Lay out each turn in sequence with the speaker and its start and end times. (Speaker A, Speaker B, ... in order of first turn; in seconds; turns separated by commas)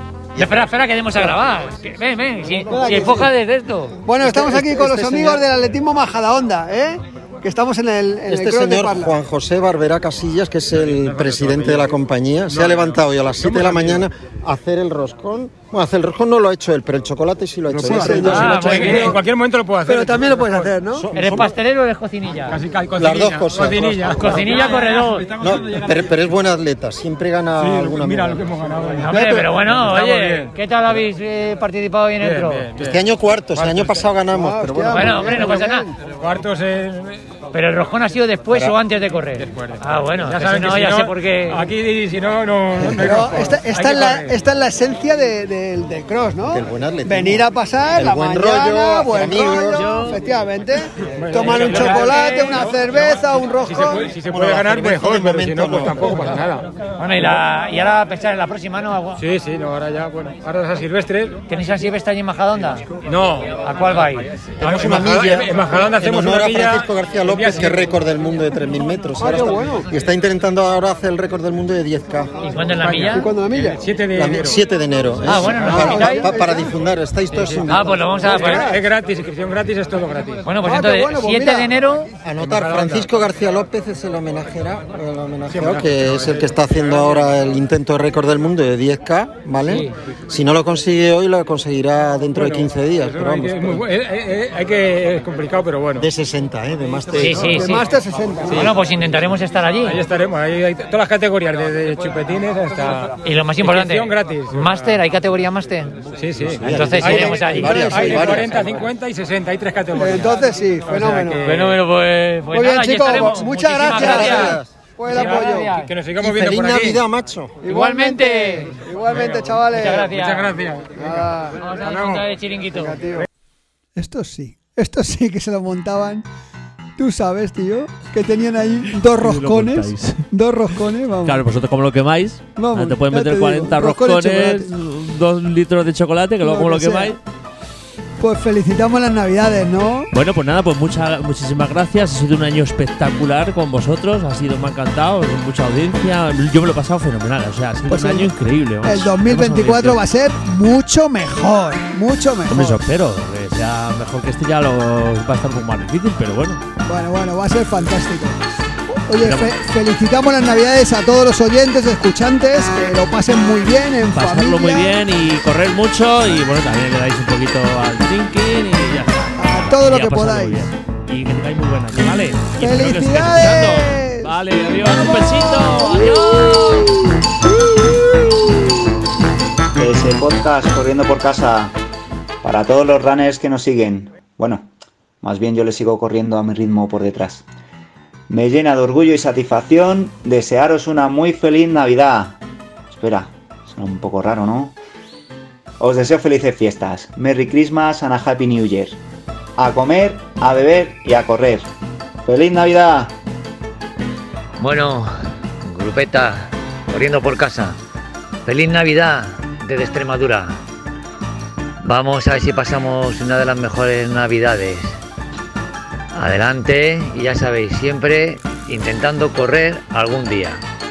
Speaker A: 0.4-4.0, Speaker B: 2.7-3.3, Speaker B: 4.0-9.2, Speaker C: 4.2-5.5, Speaker C: 8.3-18.9, Speaker D: 11.1-11.9, Speaker D: 12.5-14.1, Speaker B: 17.8-19.2, Speaker A: 18.2-19.2, Speaker D: 18.6-20.7, Speaker B: 19.9-21.1, Speaker C: 20.9-21.5, Speaker A: 21.1-22.6, Speaker D: 22.5-25.9, Speaker C: 23.0-24.6, Speaker A: 24.2-25.3, Speaker C: 25.3-28.5, Speaker D: 27.6-31.0, Speaker A: 29.0-32.7, Speaker D: 32.2-33.0, Speaker C: 32.8-35.3, Speaker D: 33.5-34.0, Speaker B: 34.3-36.0, Speaker A: 34.9-35.9, Speaker D: 36.0-37.2, Speaker A: 37.5-41.7, Speaker D: 39.4-44.3, Speaker B: 42.9-54.1, Speaker C: 46.5-50.1, Speaker A: 49.7-50.2, Speaker D: 51.2-56.7, Speaker A: 51.6-52.6, Speaker C: 54.3-56.4, Speaker A: 57.0-59.2, Speaker D: 59.2-61.4, Speaker A: 61.5-62.9, Speaker D: 63.0-63.6, Speaker A: 63.6-64.3, Speaker D: 64.6-68.0, Speaker C: 64.6-72.4, Speaker B: 69.2-69.9, Speaker D: 69.3-69.7, Speaker A: 72.4-73.3, Speaker D: 72.8-74.6, Speaker B: 73.1-73.8, Speaker C: 74.1-78.1, Speaker A: 75.3-76.5, Speaker B: 75.3-76.7, Speaker D: 77.3-80.5, Speaker A: 77.7-78.8, Speaker B: 78.2-78.8, Speaker A: 80.5-82.1, Speaker B: 80.6-81.7, Speaker C: 82.2-93.8, Speaker D: 82.4-83.1, Speaker D: 85.5-87.3, Speaker A: 89.7-89.9, Speaker D: 92.3-96.1, Speaker C: 96.0-97.9, Speaker A: 97.2-97.9, Speaker D: 97.2-97.5, Speaker B: 97.4-98.8, Speaker A: 98.5-100.0, Speaker D: 99.8-105.0, Speaker A: 103.2-106.1, Speaker D: 106.1-111.7, Speaker C: 106.5-108.7, Speaker A: 106.6-108.3, Speaker B: 107.0-108.4, Speaker B: 110.0-111.6, Speaker A: 111.4-116.0, Speaker B: 112.5-115.7, Speaker D: 114.0-114.4, Speaker C: 114.0-114.7, Speaker D: 115.1-117.0, Speaker C: 116.2-117.6, Speaker B: 117.6-120.1, Speaker A: 117.7-118.8, Speaker D: 119.1-121.1, Speaker A: 119.7-120.5, Speaker B: 121.0-121.6, Speaker A: 121.6-123.0, Speaker D: 121.8-122.2, Speaker B: 122.7-123.3, Speaker B: 124.0-126.2, Speaker B: 127.0-131.4, Speaker E: 129.0-130.3, Speaker E: 131.2-137.2, Speaker B: 132.6-134.7, Speaker B: 136.4-137.2, Speaker B: 138.2-140.1, Speaker E: 140.1-150.0, Speaker B: 147.9-148.3, Speaker B: 148.8-152.8, Speaker E: 152.5-156.6, Speaker B: 156.9-165.0, Speaker E: 159.2-159.6, Speaker E: 164.2-176.9, Speaker B: 169.4-170.7, Speaker B: 172.6-176.2, Speaker F: 179.8-181.8, Speaker F: 182.4-184.7, Speaker F: 185.2-187.4, Speaker F: 188.3-192.4, Speaker F: 192.9-194.8, Speaker F: 195.8-199.0, Speaker F: 199.6-201.7, Speaker F: 202.2-203.2, Speaker A: 204.6-207.8, Speaker A: 208.4-210.6, Speaker A: 211.8-215.0, Speaker A: 216.1-220.6